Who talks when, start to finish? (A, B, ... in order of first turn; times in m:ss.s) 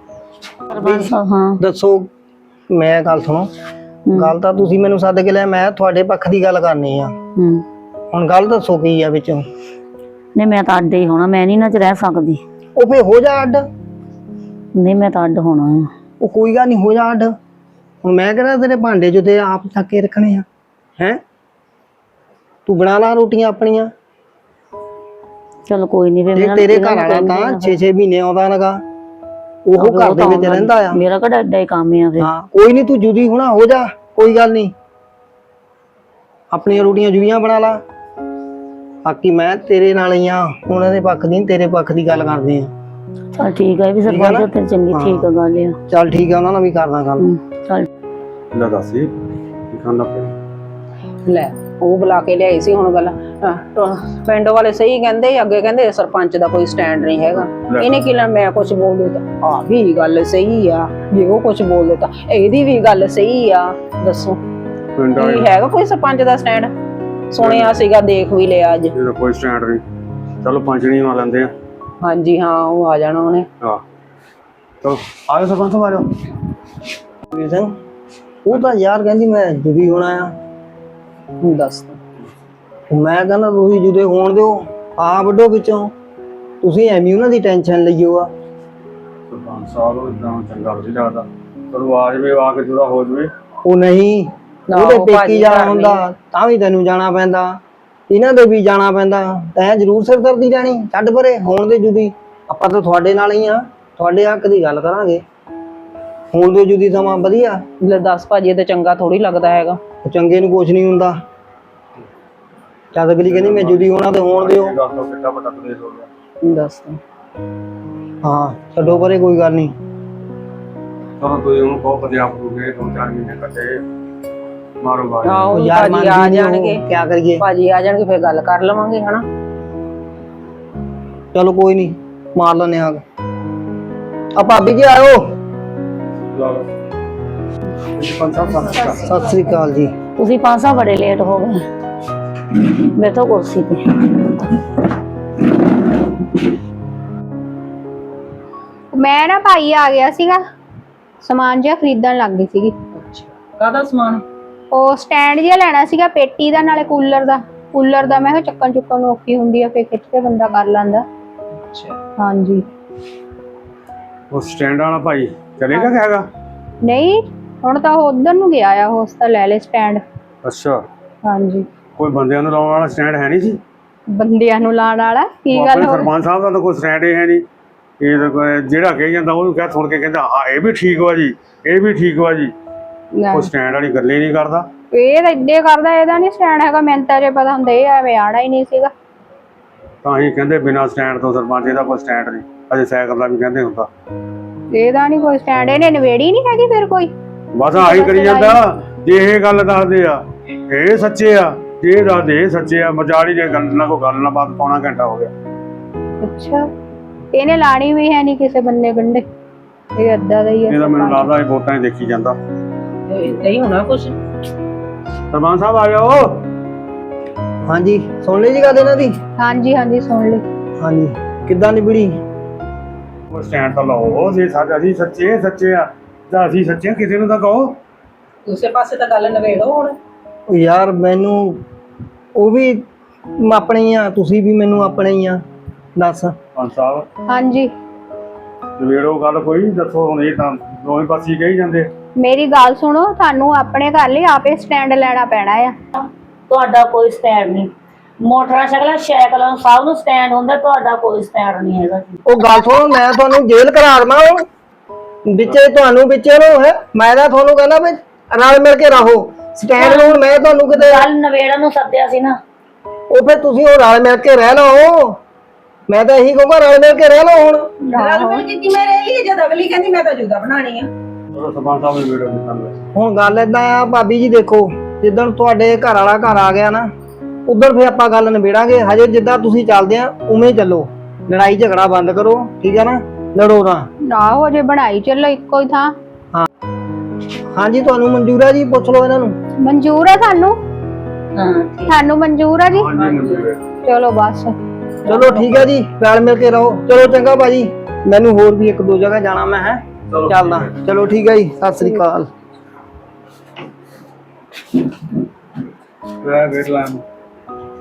0:00.7-0:01.6 A
0:00.7-0:02.1 B
0:02.7-0:03.5 B
0:04.1-0:04.3 A
0:04.1-0:07.1 B
0:07.4-0:07.6 A
0:08.1-0:09.4 B
0:10.3-0:12.4 A
0:12.8-0:13.6 B
0:14.8-0:15.9 A
0:16.2-0:17.3 B
0:18.0-0:20.4 B
0:22.6-0:23.9 B
0:25.7-0:27.8 A
0:26.3-0:28.8 B
0:29.6-0:31.0 B
0:29.8-0:32.3 A
0:32.2-0:34.7 B
0:36.5-0:37.8 B
0:39.0-0:42.7 B
0:43.3-0:45.8 A
0:44.0-0:45.3 B
0:45.9-0:47.3 B
0:47.2-0:47.9 A
0:48.5-0:49.1 C
0:49.7-0:50.3 C
0:51.2-1:04.4 D
0:57.3-0:57.9 C
1:04.9-1:05.5 C
1:05.2-1:06.7 D
1:07.3-1:08.9 D
1:07.4-1:07.8 C
1:08.9-1:09.8 C
1:10.4-1:11.5 C
1:12.0-1:13.5 D
1:14.8-1:16.1 C
1:17.3-1:17.7 B
1:18.4-1:20.3 B
1:21.4-1:22.0 D
1:22.9-1:25.9 B
1:26.6-1:28.3 B
1:29.3-1:33.3 C
1:33.6-1:37.6 B
1:34.7-1:36.0 D
1:38.1-1:45.2 B
1:46.3-1:47.6 B
1:47.8-1:49.8 D
1:50.0-1:51.2 B
1:52.9-1:54.7 B
1:53.2-1:56.1 C
1:56.4-1:57.0 D
1:58.2-1:59.7 B
2:01.2-2:03.8 C
2:04.8-2:05.5 C
2:05.2-2:06.8 D
2:05.5-2:07.4 B
2:07.4-2:09.2 D
2:11.3-2:13.0 B
2:14.3-2:15.3 B
2:16.3-2:16.7 C
2:18.0-2:19.1 C
2:18.9-2:19.9 B
2:20.2-2:21.6 A
2:22.9-2:23.8 A
2:28.9-2:30.4 E
2:31.2-2:32.7 E
2:32.9-2:34.2 D
2:34.7-2:41.0 E
2:41.7-2:42.0 D
2:42.2-2:42.6 E
2:44.3-2:46.3 C
2:46.8-2:50.0 E
2:50.4-2:50.8 C
2:51.2-2:51.6 E
2:52.0-2:53.6 C
2:54.1-2:56.1 E
2:55.5-2:57.4 C
2:58.0-3:02.5 C
3:03.2-3:03.5 E
3:03.3-3:04.7 C
3:04.9-3:08.9 E
3:10.0-3:13.9 C
3:14.7-3:17.1 E
3:17.5-3:25.3 C
3:17.8-3:18.6 E
3:26.2-3:26.6 E
3:27.3-3:29.2 E
3:30.0-3:31.3 E
3:30.7-3:32.4 C
3:33.1-3:34.2 D
3:35.3-3:36.4 C
3:37.6-3:39.1 B
3:39.4-3:40.4 E
3:40.8-3:42.2 B
3:43.3-3:47.8 C
3:48.4-3:50.0 D
3:50.5-3:51.6 B
3:52.3-3:52.8 B
3:53.4-3:55.4 B
3:56.0-3:56.3 B
3:56.6-3:57.1 C
3:57.3-3:57.7 E
3:58.8-4:01.9 C
4:02.2-4:05.7 E
4:06.5-4:12.2 A
4:12.2-4:14.4 B
4:15.3-4:21.1 B
4:19.8-4:22.4 A
4:23.1-4:25.2 B
4:25.9-4:27.7 B
4:27.8-4:28.4 E
4:27.9-4:30.9 D
4:31.3-4:32.8 C
4:32.9-4:36.9 B
4:37.4-4:43.9 B
4:44.1-4:45.9 E
4:47.5-4:49.4 B
4:49.6-4:50.6 E
4:51.4-4:51.9 D
4:51.8-4:53.0 E
4:52.7-4:53.6 C
4:53.0-4:53.4 D
4:53.8-4:54.6 E
4:55.0-5:02.3 B
5:00.1-5:00.7 C
5:06.2-5:07.0 C